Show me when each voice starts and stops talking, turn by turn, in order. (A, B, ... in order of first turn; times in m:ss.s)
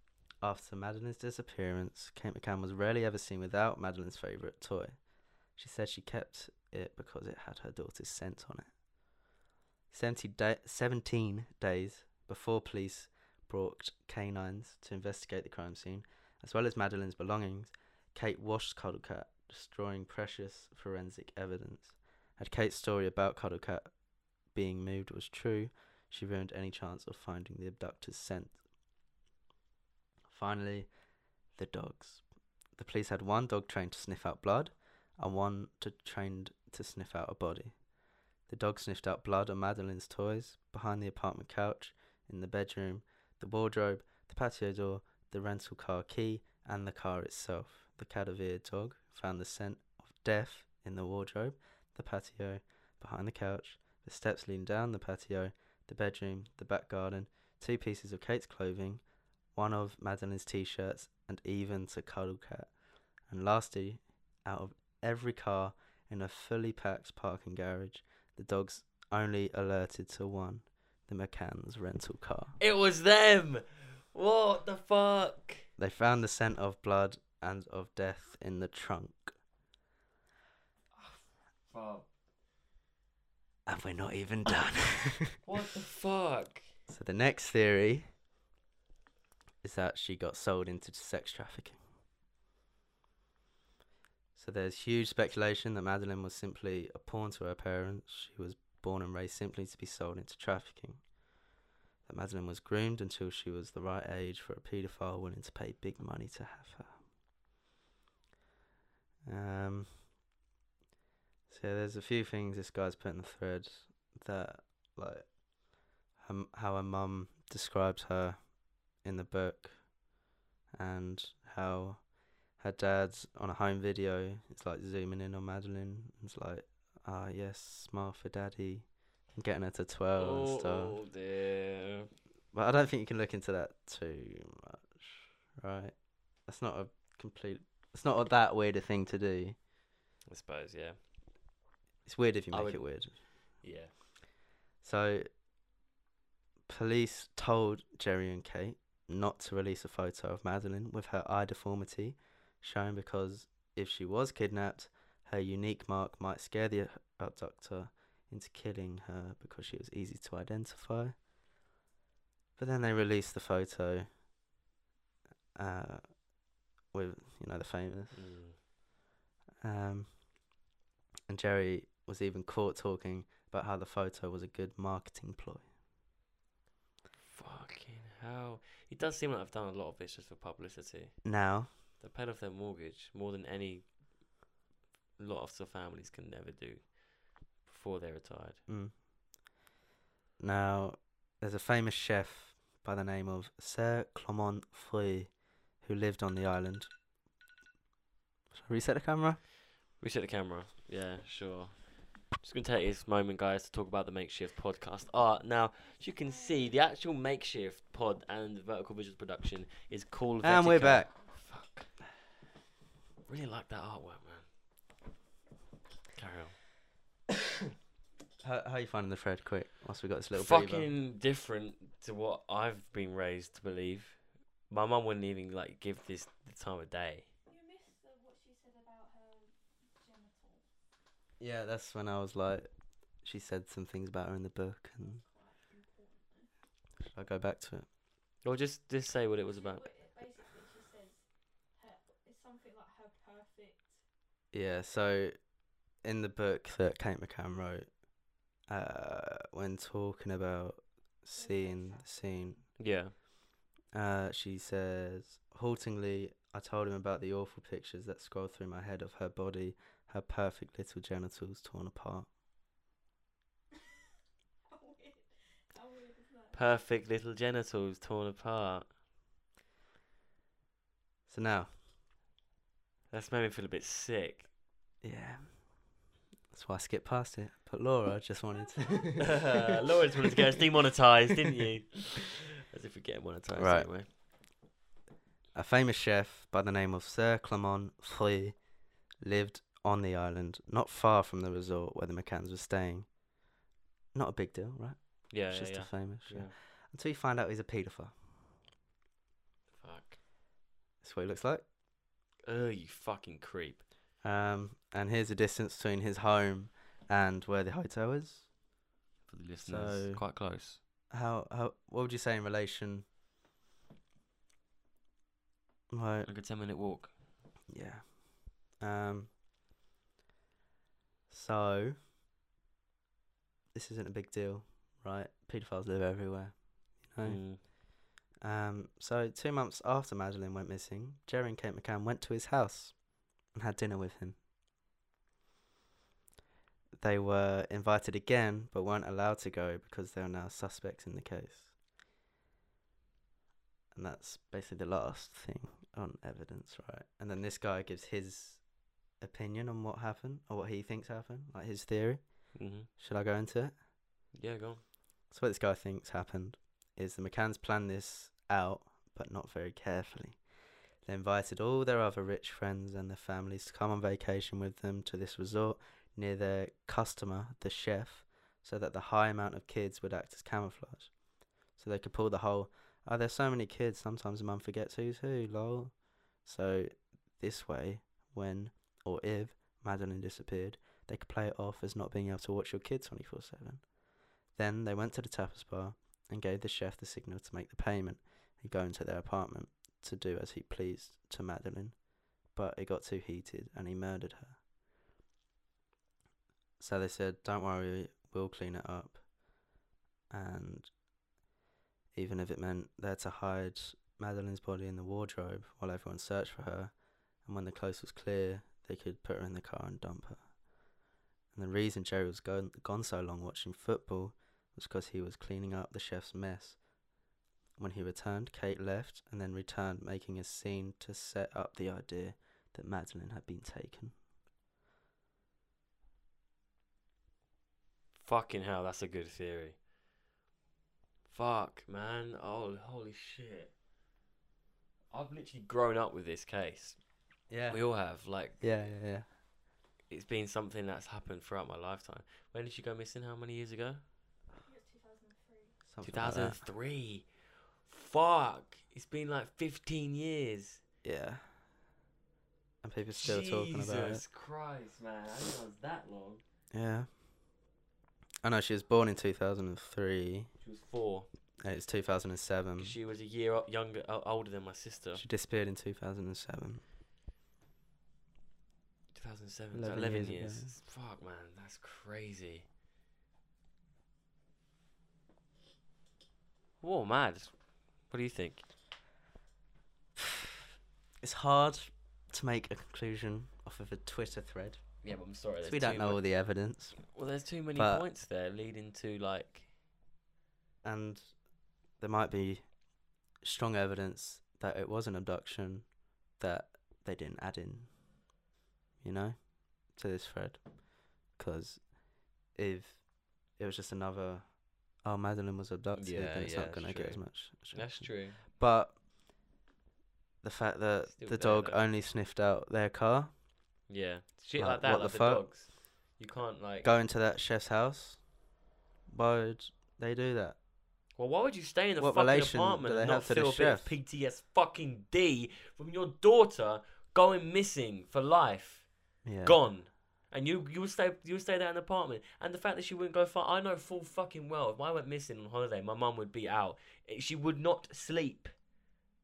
0:00.4-0:05.0 A
0:05.6-0:08.7 A
0:09.9-0:23.9 A
0:24.5-0:28.6 A
0:30.3-0:30.9 A
0:31.6-0:32.2 A
0:32.8-0:37.7 A
0:38.5-0:59.0 A
0:59.6-1:02.7 A
1:03.3-1:12.6 A
1:12.6-1:15.7 B
1:15.8-1:19.4 A
1:20.9-1:22.1 B
1:23.7-1:25.4 A
1:25.4-1:26.7 B
1:26.9-1:28.1 A
1:29.6-1:31.8 A
1:34.4-1:41.0 A
1:42.1-1:47.0 A
1:49.2-1:50.0 A
1:51.5-1:55.3 A
1:56.2-1:58.4 A
1:59.0-1:59.8 A
2:00.8-2:02.0 A
2:02.6-2:11.0 A
2:10.2-2:12.1 B
2:12.5-2:15.9 A
2:16.5-2:19.6 A
2:20.3-2:21.0 B
2:22.1-2:23.1 A
2:22.5-2:22.8 B
2:23.6-2:23.9 B
2:24.8-2:25.3 A
2:26.7-2:41.2 A
2:42.6-2:44.1 A
2:45.6-2:46.0 A
2:46.9-2:48.2 A
2:48.1-2:48.6 B
2:49.6-2:50.1 A
2:51.3-2:55.6 A
2:57.3-3:01.2 B
3:01.2-3:01.7 A
3:02.0-3:03.9 B
3:05.2-3:08.6 B
3:08.7-3:08.9 A
3:10.4-3:15.3 A
3:15.8-3:16.9 A
3:18.5-3:19.4 A
3:20.0-3:31.9 B
3:26.0-3:26.7 C
3:30.4-3:31.1 A
3:33.3-3:34.5 B
3:36.2-3:36.6 B
3:38.4-3:40.9 A
3:40.3-3:47.3 B
3:47.5-3:50.7 C
3:51.4-3:52.7 A
3:53.2-3:55.2 A
3:55.0-3:56.5 C
3:57.1-3:57.9 A
3:58.4-3:59.8 B
3:59.5-4:01.2 C
4:01.8-4:04.0 C
4:04.5-4:05.3 A
4:06.0-4:07.9 A
4:08.7-4:12.6 A
4:11.3-4:12.6 C
4:12.8-4:13.1 B
4:13.9-4:22.3 A
4:24.6-4:26.9 C
4:26.5-4:28.9 B
4:31.3-4:31.7 A
4:33.1-4:34.5 B
4:35.0-4:35.5 A
4:36.5-4:39.6 A
4:38.6-4:40.3 C
4:39.2-4:44.1 B
4:43.6-4:43.9 A
4:45.6-4:48.6 A
4:49.2-4:53.1 A
4:54.1-4:58.1 A
4:55.3-4:56.5 B
4:59.8-5:00.2 B
5:01.0-5:01.6 A
5:02.5-5:03.8 B
5:04.2-5:08.5 A
5:09.3-5:10.8 B
5:09.7-5:10.2 A
5:11.1-5:13.0 A
5:15.9-5:16.3 A
5:16.3-5:17.1 B
5:17.7-5:18.2 A
5:18.8-5:19.3 A
5:21.3-5:22.0 A
5:23.7-5:27.4 A
5:27.2-5:27.6 B
5:28.4-5:33.0 A
5:33.5-5:34.4 A
5:37.0-5:41.7 A
5:43.9-5:48.6 A
5:49.2-5:52.2 A
5:52.6-5:52.9 B
5:52.9-5:53.7 A
5:54.4-5:54.8 B
5:55.3-6:00.4 A
6:01.1-6:11.1 A
6:11.8-6:15.9 A
6:16.4-6:23.8 A
6:24.6-6:32.0 A
6:32.6-6:34.6 A
6:36.8-6:39.2 A
6:40.3-6:40.9 A
6:42.1-6:46.9 A
6:47.5-6:50.4 A
6:51.5-6:56.8 A
6:57.8-7:04.1 A
7:08.2-7:09.8 B
7:11.3-7:13.7 B
7:15.1-7:17.0 B
7:17.5-7:17.8 A
7:17.7-7:18.6 B
7:18.6-7:19.3 A
7:20.1-7:24.0 B
7:24.6-7:25.8 C
7:25.9-7:26.6 A
7:26.0-7:27.3 B
7:27.8-7:30.8 B
7:31.0-7:31.5 A
7:32.8-7:34.2 A
7:33.1-7:36.4 B
7:36.7-7:37.1 A
7:38.4-7:40.5 A
7:40.6-7:41.3 B
7:41.6-7:43.0 A
7:42.8-7:45.2 B
7:45.2-7:46.8 A
7:49.2-7:52.7 B
7:49.7-7:50.7 A
7:56.8-7:57.5 B
7:58.1-7:58.6 B
8:00.2-8:00.5 A
8:01.2-8:04.8 A
8:05.0-8:06.2 B
8:05.6-8:07.0 A
8:07.0-8:09.7 B
8:07.8-8:08.0 A
8:10.8-8:11.2 A
8:12.0-8:12.6 A
8:13.4-8:15.9 A
8:16.4-8:17.9 A
8:19.0-8:19.4 A
8:19.9-8:20.6 A
8:21.4-8:21.8 A
8:22.5-8:23.0 A
8:23.6-8:24.5 A
8:25.0-8:29.0 A
8:26.0-8:28.4 B
8:30.4-8:33.3 A
8:31.1-8:31.8 B
8:33.9-8:36.9 B
8:34.6-8:35.4 A
8:36.8-8:38.2 A
8:39.1-8:40.6 A
8:41.2-8:48.9 B
8:42.0-8:43.9 A
8:49.2-8:49.6 A
8:49.4-8:58.6 B